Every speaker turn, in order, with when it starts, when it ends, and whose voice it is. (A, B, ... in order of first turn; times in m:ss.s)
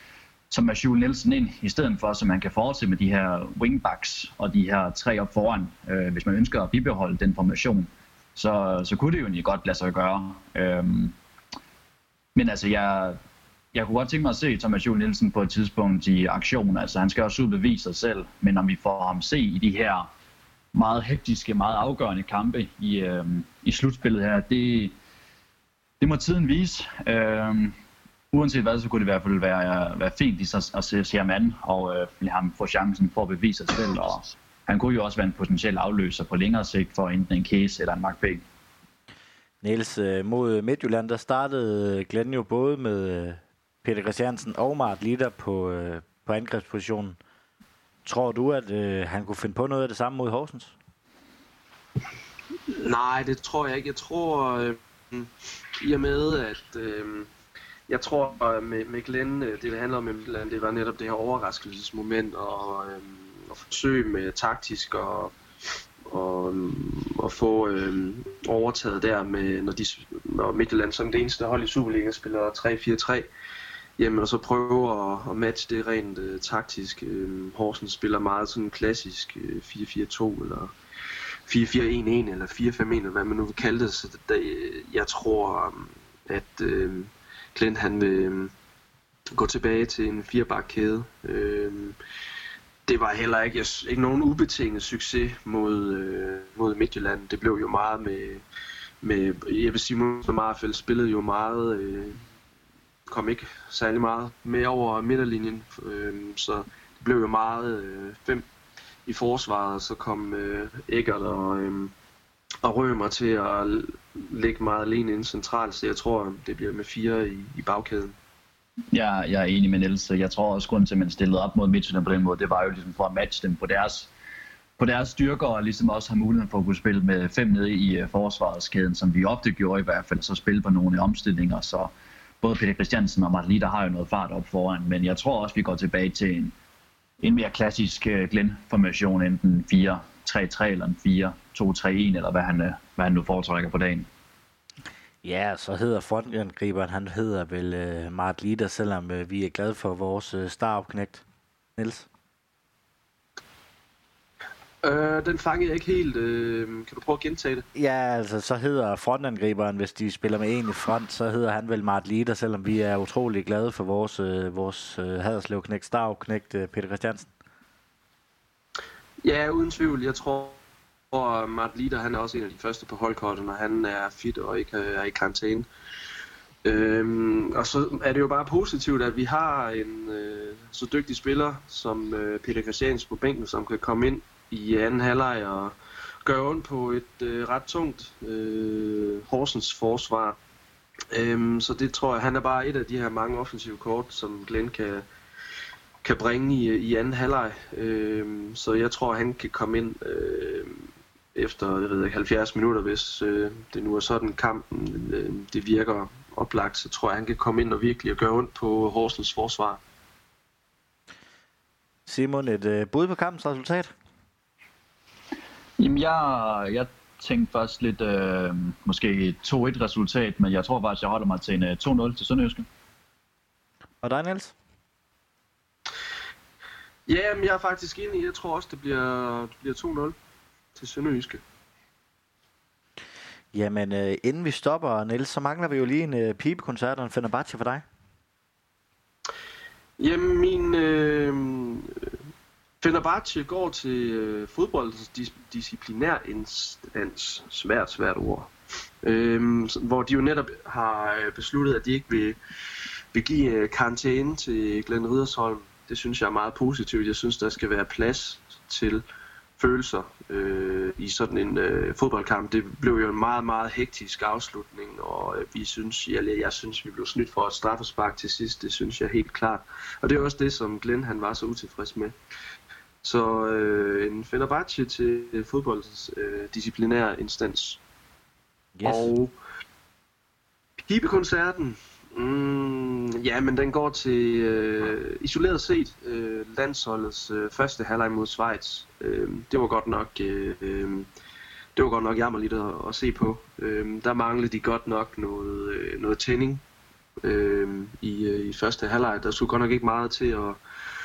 0:00.5-0:11.1 A
0:12.3-0:13.2 A
0:13.7-0:20.1 A
0:20.7-0:25.0 A
0:26.0-0:27.7 A
0:28.3-0:38.4 A
0:39.6-0:47.2 B
0:48.0-0:50.7 B
0:52.7-0:57.3 C
0:57.9-1:05.3 C
1:06.0-1:13.3 C
1:14.0-1:20.7 C
1:21.4-1:28.5 C
1:29.3-1:32.0 C
1:32.9-1:38.4 C
1:39.0-1:42.2 C
1:43.1-1:48.4 C
1:49.0-1:51.9 C
1:52.6-1:58.1 C
1:58.9-2:04.1 A
2:04.8-2:11.9 A
2:12.4-2:16.5 A
2:17.2-2:24.1 A
2:25.2-2:31.2 B
2:31.8-2:32.1 B
2:34.8-2:37.6 C
2:37.7-2:47.3 B
2:49.2-2:50.6 C
2:51.1-2:55.7 C
2:56.6-3:10.4 C
3:11.1-3:15.0 C
3:16.0-3:29.8 C
3:32.1-3:33.9 B
3:35.8-3:42.6 A
3:44.0-3:44.5 B
3:47.1-3:50.1 C
3:50.8-3:51.4 C
3:53.5-3:57.8 B
4:00.0-4:02.1 C
4:02.8-4:08.5 C
4:09.0-4:12.4 C
4:13.1-4:19.0 C
4:19.6-4:32.1 C
4:33.0-4:37.8 C
4:38.8-4:39.1 B
4:38.8-4:39.3 C
4:40.8-4:51.1 C
4:51.8-4:56.6 C
4:57.2-5:00.6 C